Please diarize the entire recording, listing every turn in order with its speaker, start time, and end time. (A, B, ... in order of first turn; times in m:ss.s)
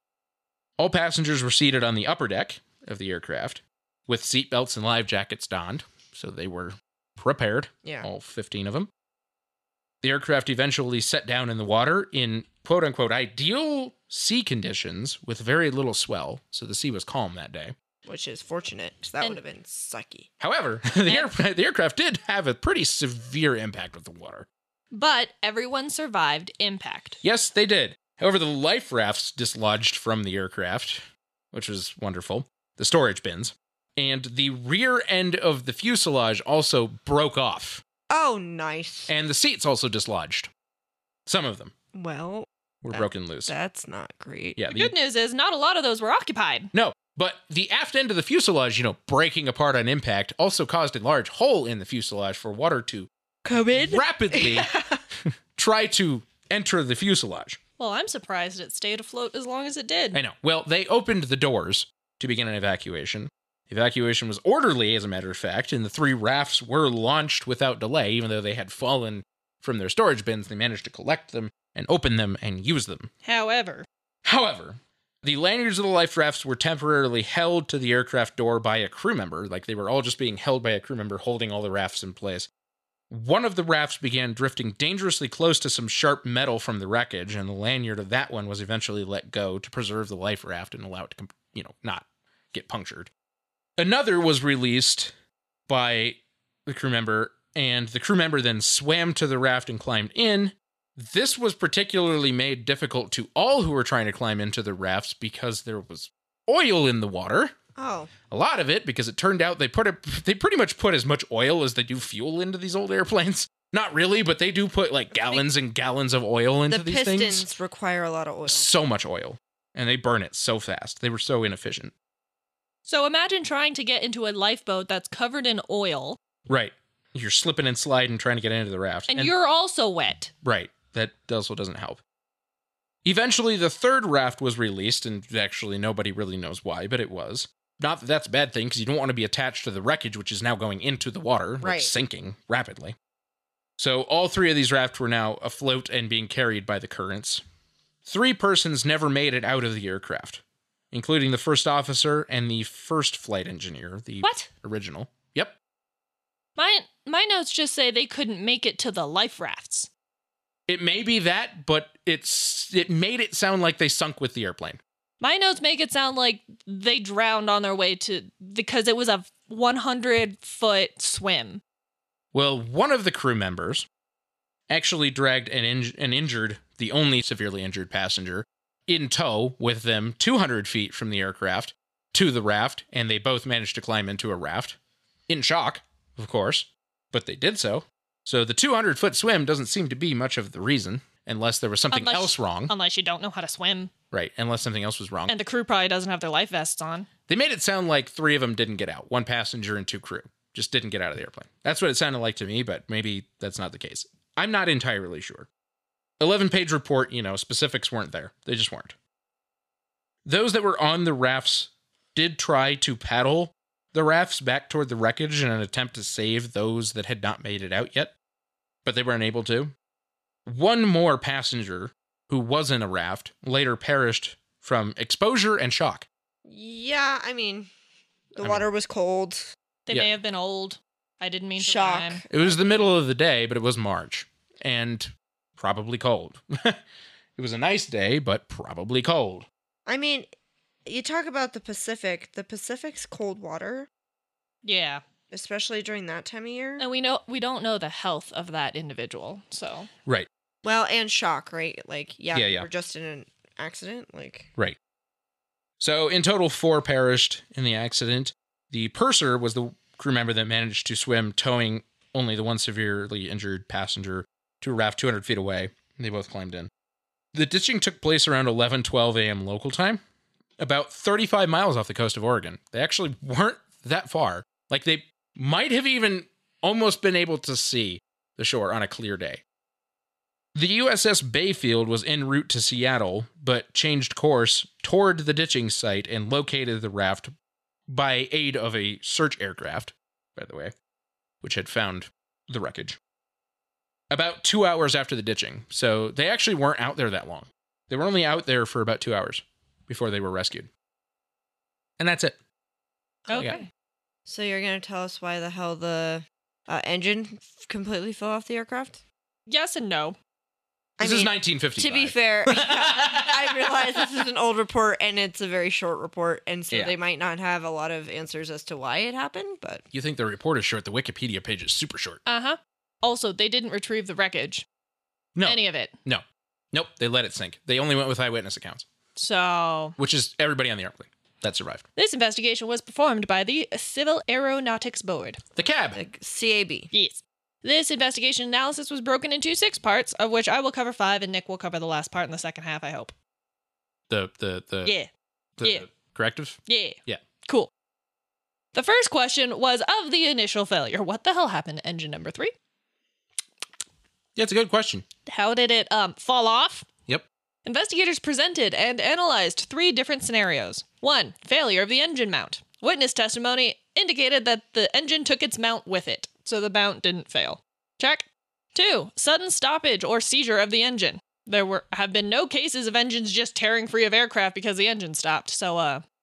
0:00.8-0:08.9 A
0:10.0-0:17.7 A
0:18.0-0:20.3 B
0:20.4-0:24.5 A
0:24.9-0:27.2 C
0:27.2-0:37.8 A
0:38.1-0:39.1 B
0:39.1-0:40.5 A
0:41.2-0:41.7 A
0:41.9-0:44.6 B
0:42.8-0:43.5 A
0:44.6-0:44.9 A
0:44.7-0:46.7 C
0:46.7-0:53.1 A
0:53.4-0:55.0 B
0:53.7-0:54.7 A
0:55.2-0:57.6 A
0:57.8-1:00.2 C
1:00.1-1:13.1 A
1:13.2-1:13.8 C
1:14.2-1:22.5 A
1:23.1-1:33.1 A
1:33.8-1:35.1 A
1:35.7-1:47.5 A
1:47.8-1:48.1 B
1:48.3-1:57.5 A
1:56.7-1:58.7 B
1:58.5-2:01.9 A
2:02.8-2:06.2 C
2:06.4-2:09.3 A
2:09.1-2:10.3 C
2:10.4-2:12.0 A
2:13.0-2:22.9 A
2:21.6-2:21.9 B
2:23.8-2:27.4 A
2:28.0-2:30.4 A
2:30.9-2:35.6 A
2:34.2-2:34.5 C
2:36.6-2:39.9 C
2:40.7-2:44.8 A
2:45.2-2:51.6 C
2:52.3-2:53.9 A
2:54.7-3:04.8 A
3:05.3-3:12.7 A
3:11.9-3:13.9 C
3:14.1-3:15.3 A
3:15.3-3:17.1 C
3:17.3-3:25.5 A
3:26.2-3:28.9 A
3:30.2-3:38.1 A
3:38.8-3:39.7 A
3:40.4-3:46.1 A
3:46.4-3:47.7 B
3:48.3-3:49.5 B
3:48.4-3:48.6 A
3:49.9-3:52.2 C
3:51.6-3:52.8 B
3:52.3-3:56.8 A
3:57.4-3:59.5 A
3:59.9-4:00.3 B
4:00.8-4:03.9 B
4:04.6-4:05.0 C
4:05.3-4:06.8 B
4:06.8-4:09.9 C
4:10.6-4:14.5 B
4:12.3-4:12.7 A
4:15.8-4:26.7 A
4:27.3-4:30.0 A
4:30.6-4:39.4 A
4:40.5-4:47.3 A
4:47.9-4:50.7 A
4:51.4-4:53.0 A
4:54.1-5:00.7 A
5:02.0-5:02.4 A
5:03.3-5:03.6 C
5:03.3-5:03.6 A
5:04.2-5:09.0 B
5:09.5-5:10.2 C
5:11.0-5:19.8 B
5:11.0-5:14.1 A
5:19.9-5:22.2 A
5:22.2-5:24.6 C
5:25.4-5:28.8 A
5:25.4-5:25.9 C
5:29.2-5:30.0 C
5:30.0-5:31.8 A
5:32.0-5:35.4 C
5:35.6-5:36.0 A
5:35.9-5:36.9 B
5:36.9-5:43.1 C
5:44.1-5:44.9 A
5:45.6-5:47.2 A
5:45.6-5:45.9 C
5:46.7-5:47.7 C
5:48.7-5:52.5 C
5:54.4-5:55.0 A
5:55.2-5:56.9 C
5:57.6-6:16.0 C